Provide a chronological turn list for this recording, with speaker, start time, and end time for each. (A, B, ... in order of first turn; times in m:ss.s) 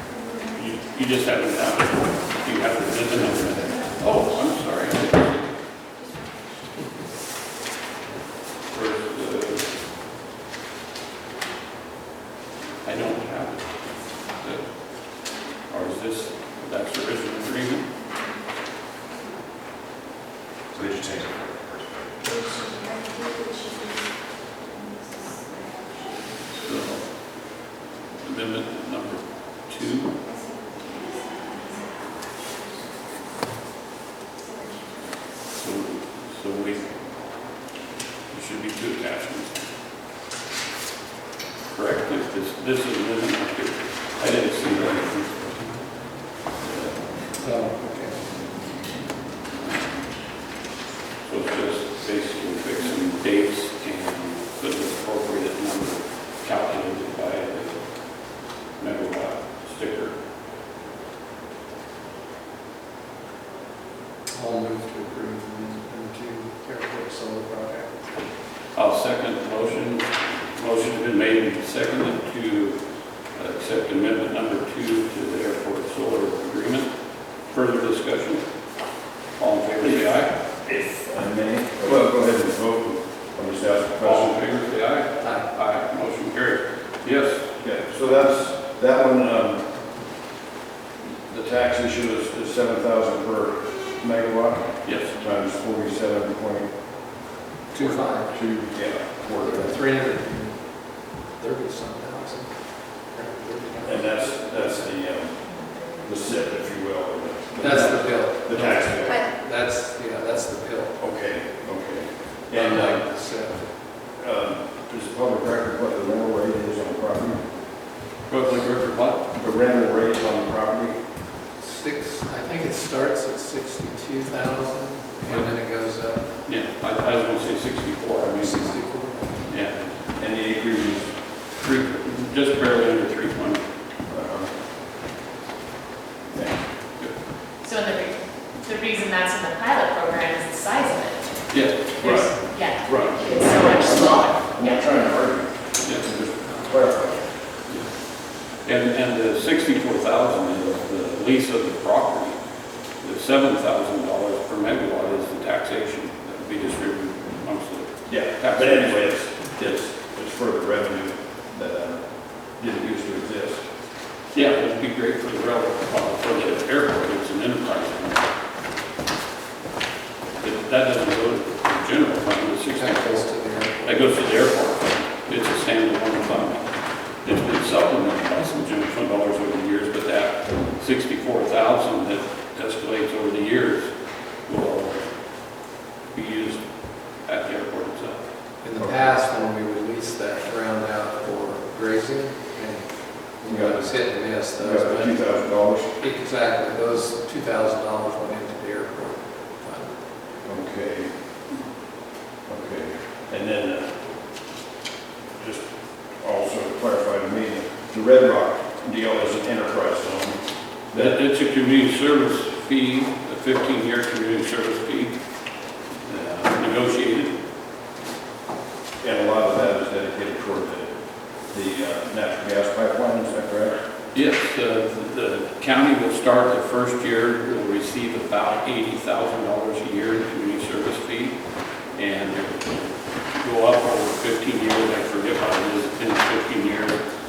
0:00.4-0:05.5 A
0:08.7-0:09.7 A
0:12.8-0:14.7 A
0:15.7-0:17.9 A
0:20.7-0:22.0 B
0:26.5-0:27.1 A
0:28.2-0:30.2 A
0:35.5-0:37.0 A
0:38.3-0:39.6 A
0:41.7-0:45.8 A
0:47.3-0:48.5 C
0:51.2-1:00.1 A
1:04.3-1:08.1 C
1:08.7-1:12.8 A
1:13.3-1:16.9 A
1:17.4-1:18.4 A
1:19.4-1:20.3 A
1:20.6-1:24.3 B
1:24.0-1:27.4 A
1:25.2-1:25.5 C
1:27.6-1:29.6 B
1:31.3-1:36.7 B
1:34.8-1:35.2 A
1:37.7-1:38.4 C
1:37.7-1:38.0 A
1:38.3-1:39.8 B
1:39.4-1:44.8 C
1:43.8-1:45.4 B
1:45.4-1:46.1 D
1:46.0-1:49.3 B
1:47.6-1:51.0 C
1:51.0-1:53.0 B
1:52.5-1:53.7 C
1:54.1-1:57.4 B
1:58.3-1:59.2 A
1:59.3-2:01.0 B
2:01.6-2:06.3 C
2:05.2-2:05.5 A
2:06.4-2:09.9 A
2:08.3-2:09.5 C
2:10.2-2:11.1 B
2:11.5-2:13.6 A
2:14.1-2:14.5 B
2:16.3-2:16.6 B
2:17.6-2:24.9 D
2:21.5-2:22.0 A
2:22.0-2:23.7 B
2:24.5-2:27.3 B
2:28.6-2:32.4 A
2:33.0-2:39.0 A
2:38.1-2:43.6 B
2:44.3-2:48.2 A
2:50.4-2:56.7 A
2:52.7-2:54.1 C
2:57.2-3:05.0 A
3:06.1-3:08.2 A
3:08.6-3:15.2 C
3:08.8-3:09.1 B
3:13.4-3:13.9 B
3:14.6-3:15.9 B
3:16.0-3:20.0 C
3:20.4-3:21.1 B
3:22.4-3:23.9 B
3:25.4-3:25.6 B
3:26.2-3:31.2 B
3:30.9-3:35.2 A
3:36.0-3:37.3 A
3:39.0-3:40.9 B
3:41.5-3:43.8 B
3:44.1-3:51.4 A
3:51.9-3:57.0 A